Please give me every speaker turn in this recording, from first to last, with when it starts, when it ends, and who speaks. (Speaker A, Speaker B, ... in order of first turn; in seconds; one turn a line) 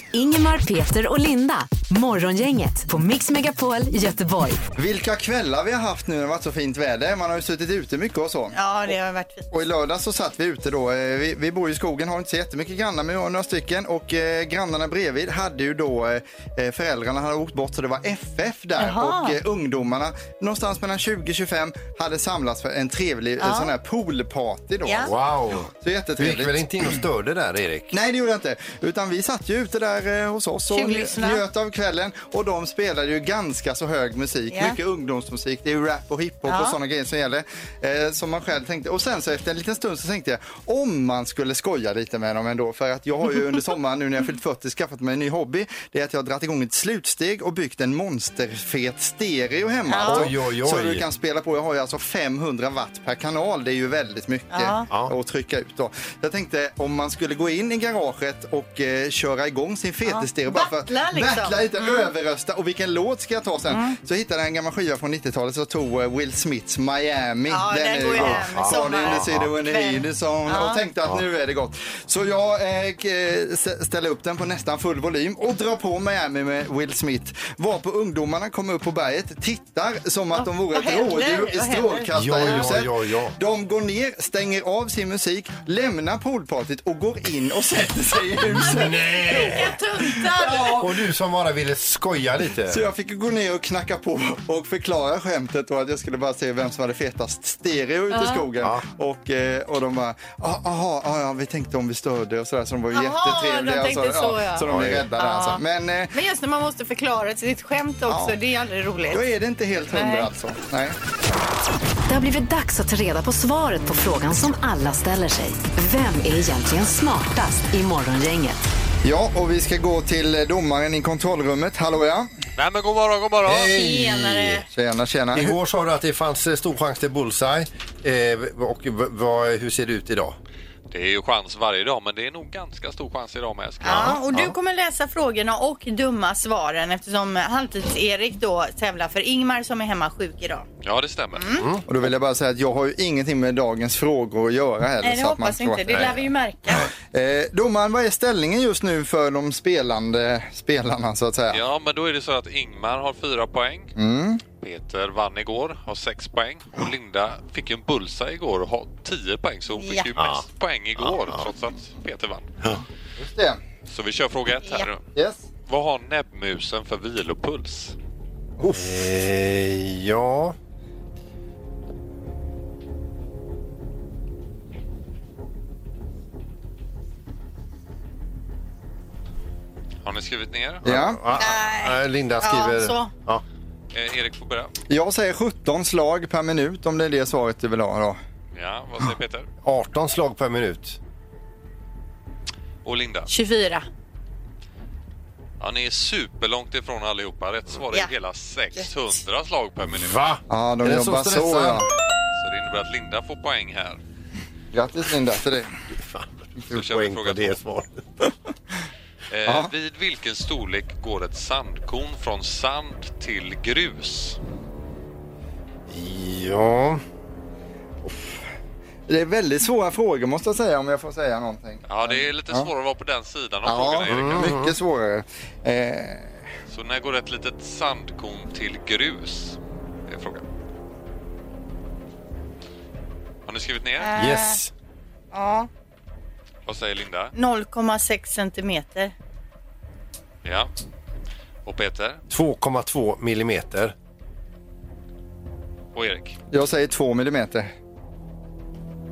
Speaker A: 0.1-4.6
Speaker B: 4.8-8.6
Speaker C: 8.5-9.5
Speaker B: 9.5-26.9
Speaker C: 18.8-19.4
Speaker C: 23.4-23.7
Speaker C: 24.9-25.1
Speaker D: 25.1-27.9
Speaker B: 27.9-89.2
Speaker C: 30.7-31.4
Speaker C: 34.5-34.8
Speaker C: 36.5-36.8
Speaker C: 49.9-50.3
Speaker D: 50.0-51.0
Speaker C: 54.5-54.9
Speaker C: 60.1-62.1
Speaker C: 63.7-64.0
Speaker C: 67.5-70.8
Speaker D: 68.2-69.5
Speaker C: 80.3-82.6
Speaker D: 82.1-83.3
Speaker D: 88.6-89.8
Speaker C: 89.0-90.9
Speaker B: 90.4-90.8
Speaker D: 90.5-92.8
Speaker B: 92.7-106.2
Speaker C: 98.1-98.5
Speaker C: 102.9-105.6
Speaker D: 104.7-105.0
Speaker C: 106.1-109.2
Speaker B: 108.1-108.4
Speaker B: 109.1-111.0
Speaker C: 109.9-110.3
Speaker A: 112.1-118.6
Speaker B: 119.0-122.3
Speaker E: 122.6-123.7
Speaker D: 123.4-124.6
Speaker C: 123.6-124.7
Speaker B: 124.7-125.6
Speaker D: 125.3-130.4
Speaker E: 130.9-134.2
Speaker C: 133.8-140.7
Speaker D: 133.9-134.5
Speaker E: 140.8-141.6
Speaker C: 141.4-141.7
Speaker D: 141.6-141.8
Speaker B: 141.9-151.6
Speaker C: 145.0-146.9
Speaker E: 151.5-153.9
Speaker B: 154.0-154.4
Speaker E: 154.6-162.6
Speaker C: 159.8-160.1
Speaker B: 163.2-163.6
Speaker E: 163.9-165.1
Speaker B: 165.2-165.4
Speaker E: 165.7-167.9
Speaker B: 168.6-168.9
Speaker D: 168.7-170.6
Speaker E: 180.0-180.8
Speaker B: 180.8-181.2
Speaker D: 180.8-183.4
Speaker C: 181.3-183.1
Speaker E: 183.9-184.7
Speaker B: 184.9-188.2
Speaker E: 188.6-189.5
Speaker D: 189.6-191.0
Speaker E: 192.8-193.3
Speaker C: 193.3-193.9
Speaker E: 195.6-200.2
Speaker D: 199.9-201.9
Speaker B: 200.5-201.9
Speaker E: 202.4-204.0
Speaker B: 204.7-205.7
Speaker D: 205.9-208.0
Speaker E: 206.7-207.6
Speaker E: 209.3-214.4
Speaker B: 209.5-209.7
Speaker D: 215.9-217.0
Speaker B: 219.1-222.7
Speaker E: 221.9-224.6
Speaker B: 223.7-226.5
Speaker D: 224.1-224.8
Speaker E: 226.7-230.4
Speaker E: 233.5-234.1
Speaker C: 234.0-234.6
Speaker D: 234.2-234.7
Speaker C: 235.3-235.7
Speaker E: 236.7-237.3
Speaker C: 237.3-239.1
Speaker E: 240.4-240.7
Speaker E: 241.7-242.2
Speaker D: 242.3-243.9
Speaker E: 245.9-246.4
Speaker B: 246.5-247.7